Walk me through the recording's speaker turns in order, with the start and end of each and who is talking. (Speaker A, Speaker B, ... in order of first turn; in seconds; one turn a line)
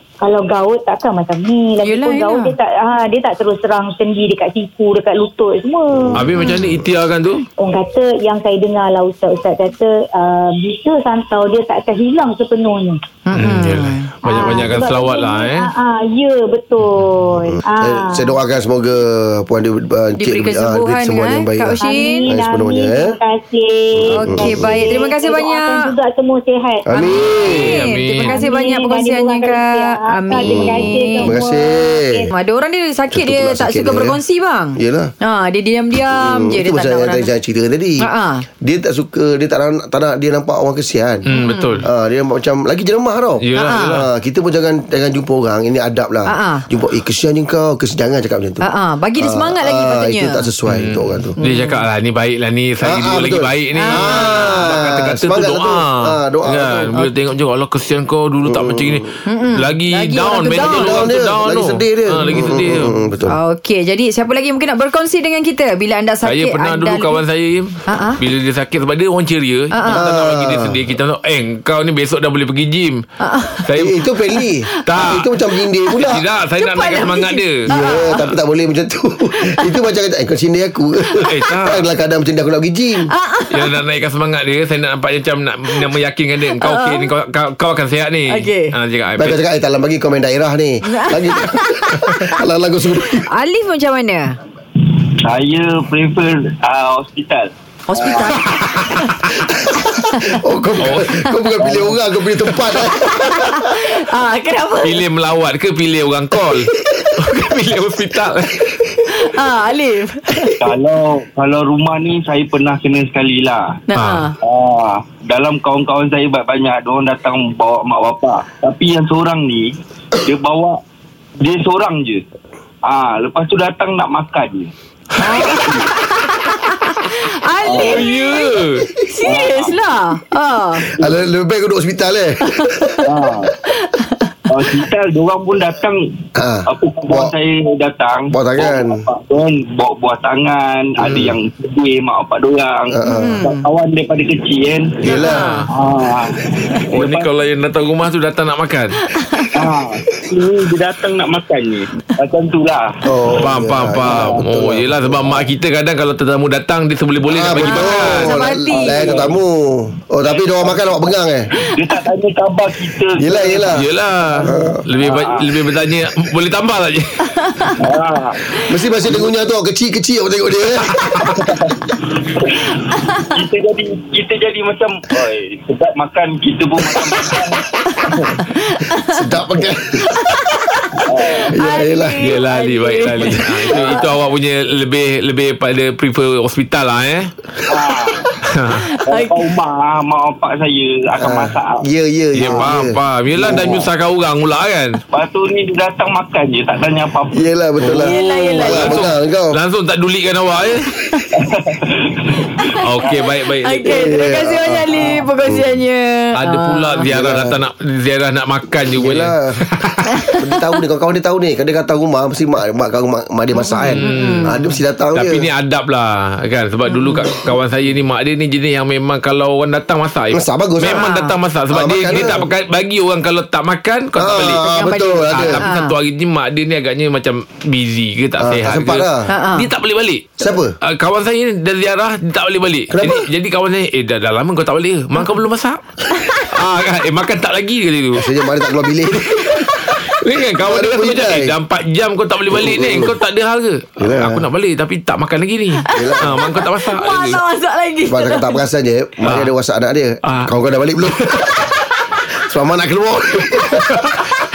Speaker A: 0.2-6.2
Speaker B: 1.8-2.5
Speaker C: 6.1-7.4
Speaker B: 6.4-6.7
Speaker A: 7.6-13.0
Speaker B: 13.2-14.7
Speaker C: 13.3-15.7
Speaker A: 14.2-18.3
Speaker D: 17.4-23.2
Speaker B: 20.2-22.3
Speaker A: 21.8-26.9
Speaker B: 24.1-25.9
Speaker D: 24.2-24.8
Speaker D: 26.9-27.8
Speaker C: 27.2-28.4
Speaker B: 27.4-31.4
Speaker A: 28.3-32.3
Speaker D: 30.4-32.2
Speaker B: 32.3-37.3
Speaker D: 33.1-34.2
Speaker D: 34.8-35.1
Speaker D: 36.1-38.1
Speaker B: 38.0-38.5
Speaker D: 38.6-41.2
Speaker B: 41.3-41.8
Speaker C: 41.3-41.9
Speaker D: 41.8-48.6
Speaker C: 43.4-44.0
Speaker B: 43.5-44.0
Speaker B: 46.3-46.6
Speaker B: 48.6-50.4
Speaker D: 49.2-51.3
Speaker C: 50.7-62.9
Speaker B: 51.4-51.8
Speaker D: 52.8-56.9
Speaker B: 53.7-54.8
Speaker D: 58.4-59.1
Speaker B: 59.2-61.0
Speaker D: 60.5-63.3
Speaker B: 63.3-67.2
Speaker C: 66.2-73.0
Speaker B: 67.9-68.2
Speaker B: 69.7-70.0
Speaker D: 69.9-70.8
Speaker B: 73.2-73.7
Speaker C: 73.7-73.9
Speaker D: 73.7-76.2
Speaker B: 74.4-74.8
Speaker C: 74.8-75.3
Speaker C: 76.0-77.7
Speaker B: 76.6-78.3
Speaker D: 77.7-83.1
Speaker C: 81.1-81.8
Speaker B: 83.1-83.7
Speaker C: 83.5-89.4
Speaker B: 86.6-87.1
Speaker B: 88.3-88.7
Speaker D: 89.2-93.3
Speaker B: 90.9-92.1
Speaker B: 93.3-94.4
Speaker E: 95.2-98.4
Speaker B: 97.9-100.3
Speaker C: 98.4-99.2
Speaker D: 99.7-104.0
Speaker C: 100.8-101.1
Speaker E: 101.6-102.0
Speaker B: 103.0-105.0
Speaker C: 104.8-108.9
Speaker B: 109.1-110.6
Speaker E: 110.6-113.8
Speaker B: 113.9-114.3
Speaker C: 113.9-114.3
Speaker E: 114.4-120.8
Speaker E: 121.4-122.2
Speaker E: 122.8-125.9
Speaker B: 125.2-131.0
Speaker E: 127.6-128.0
Speaker C: 127.8-128.9
Speaker E: 129.2-129.8
Speaker D: 130.9-133.0
Speaker B: 132.4-133.1
Speaker E: 133.0-133.5
Speaker B: 133.7-134.3
Speaker E: 134.5-144.9
Speaker D: 136.3-137.3
Speaker D: 138.3-139.0
Speaker C: 141.0-141.3
Speaker D: 142.9-143.5
Speaker B: 143.0-143.6
Speaker D: 145.0-145.5
Speaker B: 145.1-145.7
Speaker E: 145.7-147.3
Speaker C: 146.9-149.0
Speaker B: 149.1-149.5
Speaker E: 149.5-153.0
Speaker D: 153.1-155.5
Speaker C: 153.4-158.3
Speaker E: 154.1-154.4
Speaker D: 157.2-161.5
Speaker B: 157.6-159.3
Speaker E: 158.7-159.4
Speaker E: 160.2-160.9
Speaker E: 161.7-165.9
Speaker D: 163.2-163.9
Speaker C: 163.7-167.7
Speaker D: 164.4-164.8
Speaker B: 167.4-167.7
Speaker E: 167.8-168.4
Speaker D: 168.6-171.3
Speaker E: 169.0-169.4
Speaker C: 171.0-171.2
Speaker E: 171.2-178.4
Speaker B: 178.4-179.2
Speaker D: 179.1-180.7
Speaker B: 180.1-184.1
Speaker E: 181.0-181.6
Speaker D: 181.5-182.4
Speaker C: 182.2-187.3
Speaker E: 187.7-188.3
Speaker C: 188.4-188.8
Speaker B: 188.9-189.4
Speaker E: 189.1-191.8
Speaker D: 191.2-193.9
Speaker C: 192.3-195.0
Speaker E: 192.4-192.6
Speaker E: 195.1-197.4
Speaker D: 197.3-199.6
Speaker C: 197.8-200.9
Speaker B: 198.0-199.1
Speaker E: 201.3-202.4
Speaker B: 202.4-202.8
Speaker C: 202.8-204.1
Speaker B: 203.6-207.0
Speaker D: 203.8-205.7
Speaker E: 204.9-205.3
Speaker C: 206.3-210.1
Speaker D: 207.1-207.6
Speaker D: 208.9-209.6
Speaker D: 210.4-215.5
Speaker B: 213.6-214.7
Speaker C: 213.9-214.5
Speaker C: 215.1-224.7
Speaker D: 220.3-221.1
Speaker B: 220.9-221.3
Speaker D: 221.7-222.5
Speaker D: 224.2-225.7
Speaker B: 224.7-225.9
Speaker C: 225.2-235.8
Speaker D: 228.4-229.3
Speaker B: 229.3-229.7
Speaker D: 230.4-230.7
Speaker D: 232.9-233.3
Speaker C: 236.3-238.3
Speaker D: 238.1-239.8
Speaker C: 239.4-247.4
Speaker D: 240.6-241.5
Speaker D: 242.5-243.1
Speaker D: 244.0-244.4
Speaker B: 245.8-248.6
Speaker D: 245.9-246.5
Speaker D: 248.1-251.6
Speaker C: 249.2-249.5
Speaker C: 250.2-250.5
Speaker C: 251.1-251.5
Speaker D: 252.3-254.3
Speaker C: 253.8-254.2